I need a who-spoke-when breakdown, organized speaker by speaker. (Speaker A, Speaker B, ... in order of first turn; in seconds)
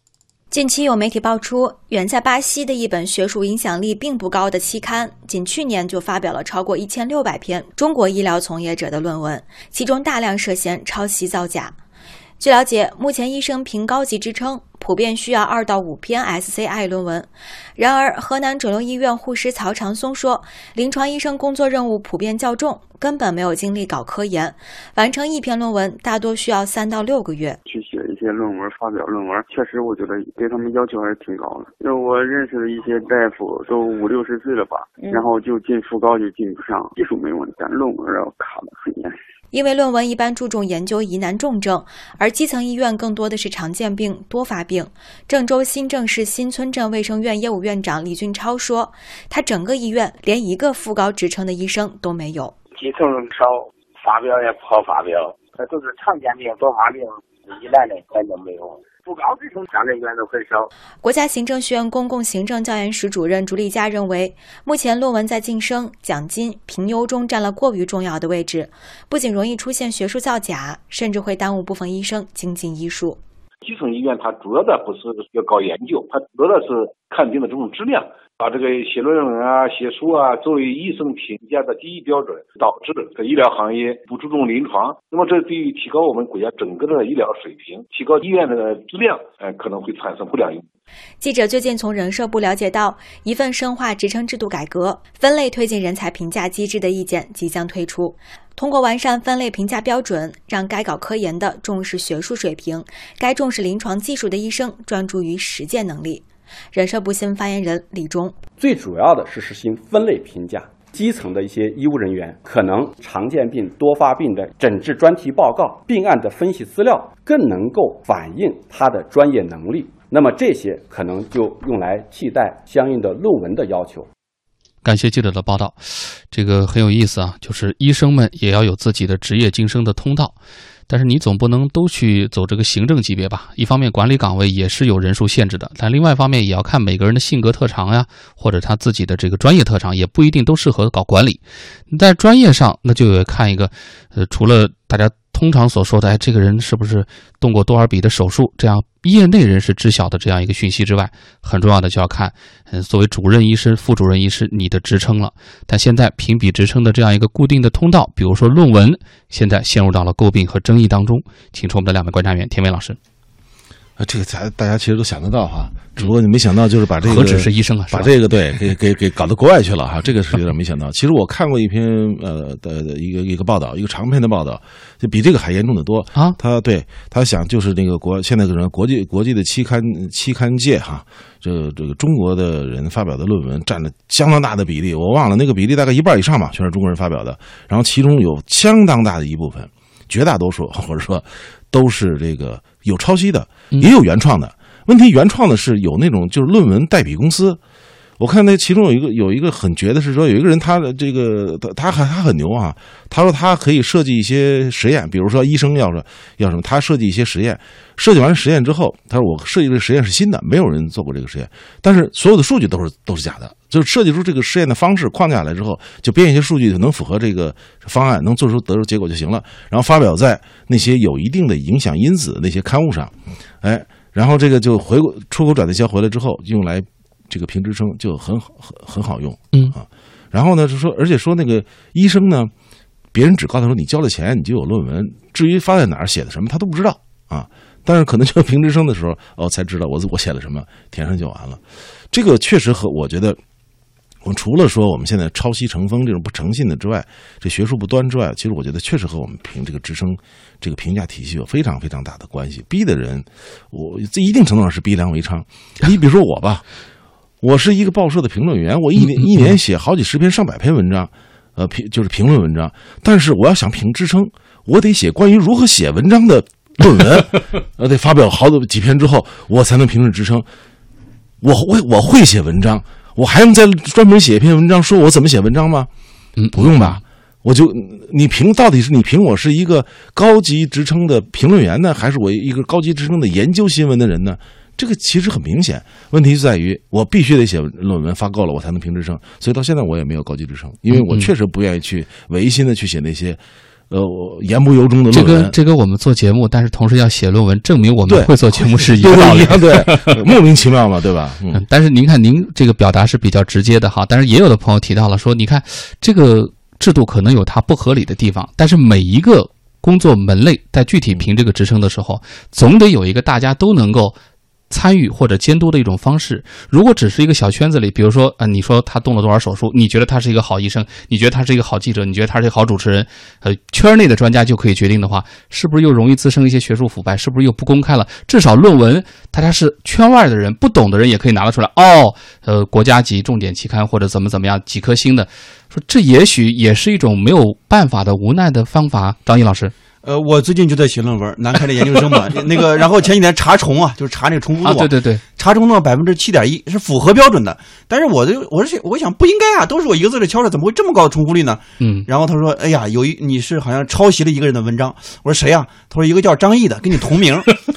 Speaker A: 0.5-11.8, 12.4-27.6, 39.5-52.5, 61.0-73.2, 91.2-108.4
Speaker B: 27.7-39.2
Speaker C: 52.8-60.6
Speaker D: 73.6-90.6
Speaker E: 108.6-124.1
Speaker F: 124.8-130.3, 130.9-163.0, 167.0-168.1, 276.4-277.0, 290.9-291.3, 295.1-300.1, 301.5-314.1, 314.7-339.7, 344.6-345.2, 351.8-352.1
Speaker G: 164.0-197.6, 198.2-232.5, 233.1-241.6, 242.1-243.4, 244.2-256.6, 257.4-270.4, 271.4-275.9, 276.5-295.5, 298.1-301.6
Speaker H: 340.1-344.8, 345.4-357.5